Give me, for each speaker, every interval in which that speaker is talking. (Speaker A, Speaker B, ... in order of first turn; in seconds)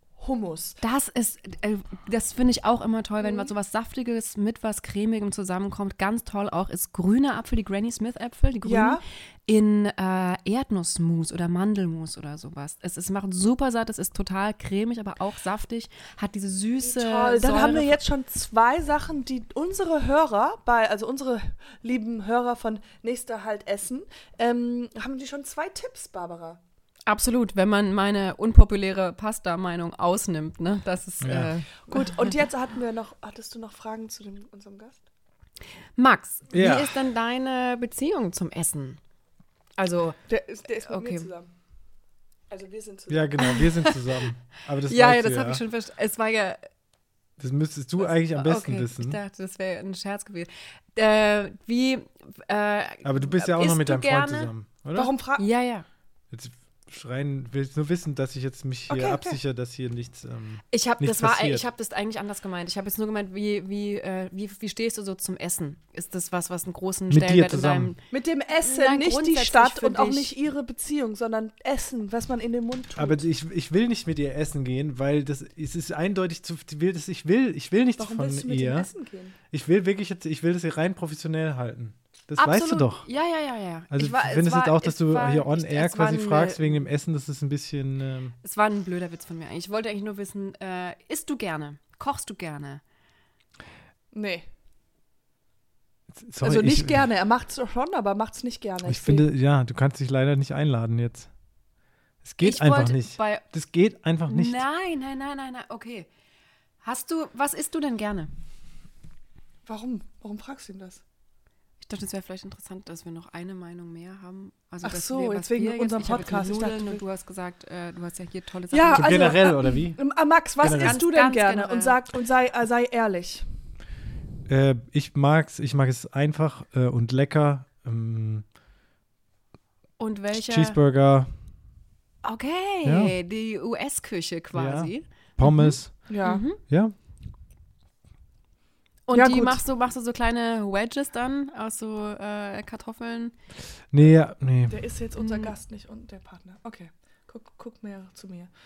Speaker A: 0.2-0.8, 3.2-3.5, 8.6-9.0, 16.8-26.6, 31.8-35.0, 40.3-41.5, 42.5-43.4, 54.9-55.5, 58.9-59.4, 68.1-73.2, 78.0-79.3, 94.1-94.5, 96.4-99.3, 109.7-111.0, 114.8-117.0, 118.7-123.5, 136.1-136.4, 139.1-139.6, 144.7-148.5
Speaker B: 0.8-18.0, 27.1-32.4, 36.0-39.0, 39.8-40.2, 40.7-41.3, 43.4-44.0, 44.8-46.6, 48.0-54.5, 55.4-55.9, 60.7-68.0, 68.5-70.3, 82.4-86.9, 88.4-92.8, 102.4-103.4, 104.3-106.1, 106.8-108.3, 111.8-119.4, 120.6-122.0, 130.0-130.8, 132.2-136.6, 139.1-143.3, 145.2-145.5
Speaker C: 31.2-31.5, 36.5-37.0, 43.1-45.6, 47.4-49.2, 53.0-55.1, 56.3-61.6, 67.1-67.9, 73.0-78.9, 79.5-83.1, 83.9-88.3, 96.1-97.1, 98.8-101.3, 102.2-104.6, 118.9-121.0, 124.5-128.4, 130.3-131.3, 132.8-133.2, 134.5-136.1, 136.6-136.9, 143.9-144.8